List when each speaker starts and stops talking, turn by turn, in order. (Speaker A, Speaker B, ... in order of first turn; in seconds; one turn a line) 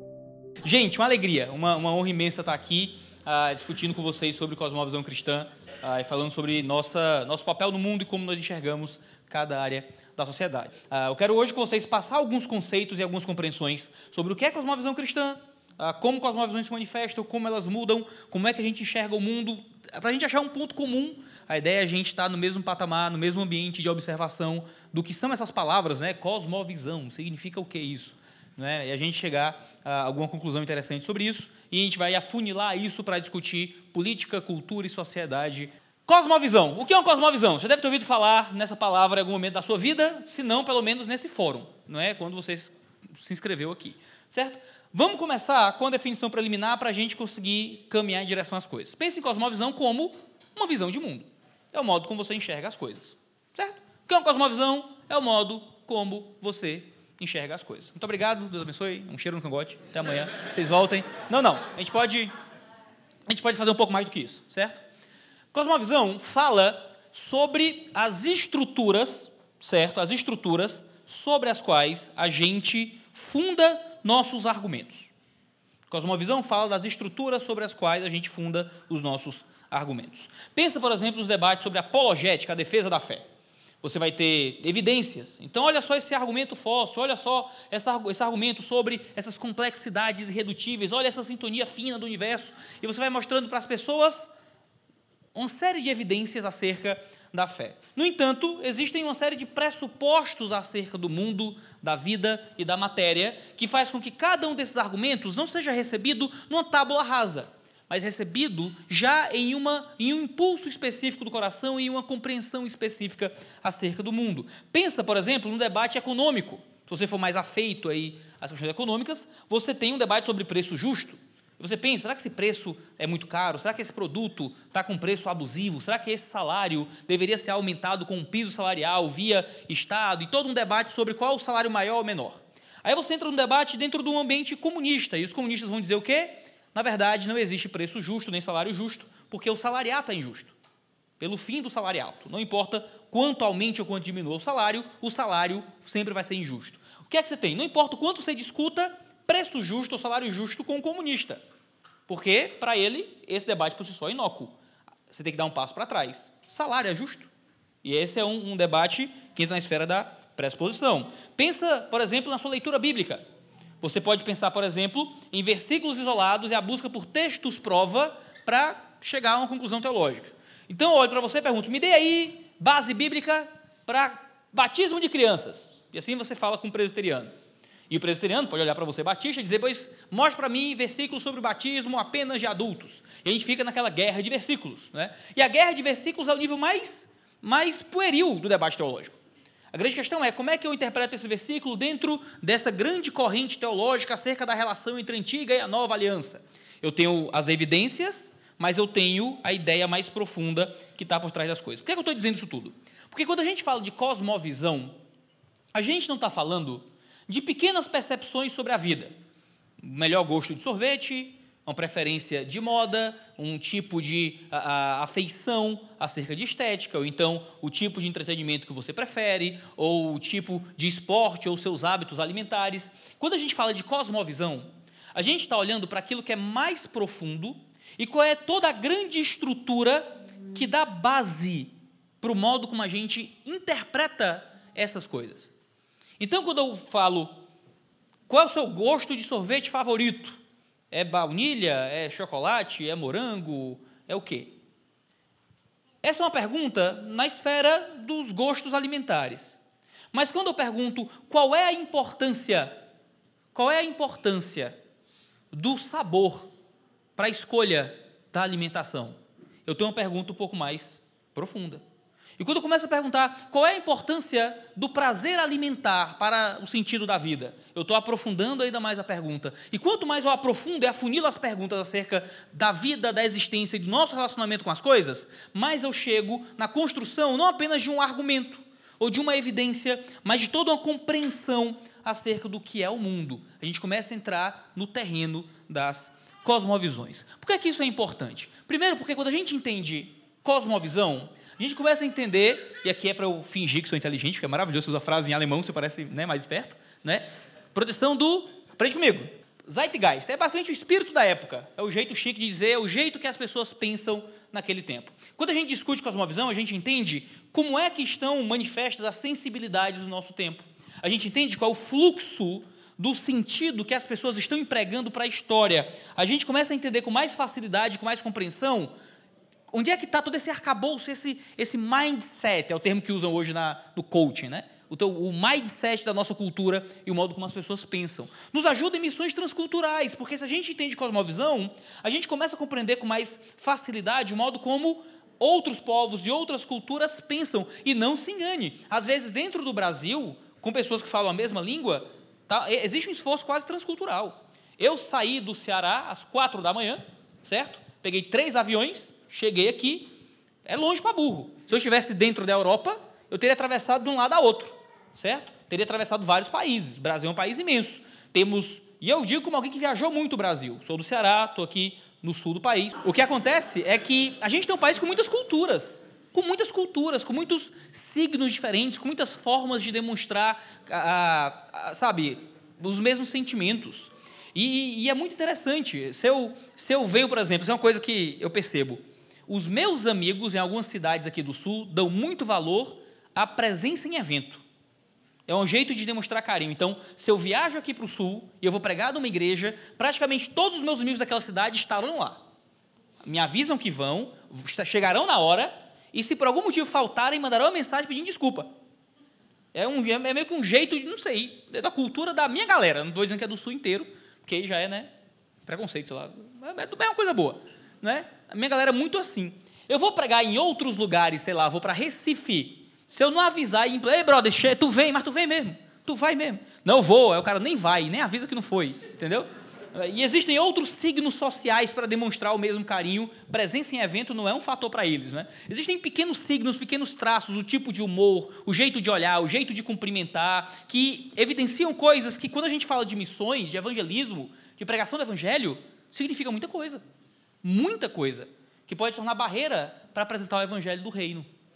Speaker A: 0.6-62.3
Speaker A: 63.3-64.8
Speaker A: 65.5-75.1
Speaker A: 75.9-83.2
Speaker A: 83.8-94.3
Speaker A: 95.3-140.5
Speaker A: 141.2-151.4
Speaker A: 152.1-154.5
Speaker A: 155.1-157.3
Speaker A: 157.8-163.2
Speaker A: 163.8-177.3
Speaker A: 177.9-189.2
Speaker A: 189.7-204.9
Speaker A: 205.7-209.1
Speaker A: 209.8-235.5
Speaker A: 236.2-237.4
Speaker A: 238.3-240.4
Speaker A: 240.9-244.5
Speaker A: 246.0-249.6
Speaker A: 250.1-252.7
Speaker A: 253.5-254.7
Speaker A: 255.5-256.5
Speaker A: 257.2-261.8
Speaker A: 262.4-318.9
Speaker A: 319.7-350.1
Speaker A: 350.6-384.6
Speaker A: 385.5-392.4
Speaker A: 393.2-398.7
Speaker A: 399.7-405.1
Speaker A: 405.6-437.0
Speaker A: 437.6-441.5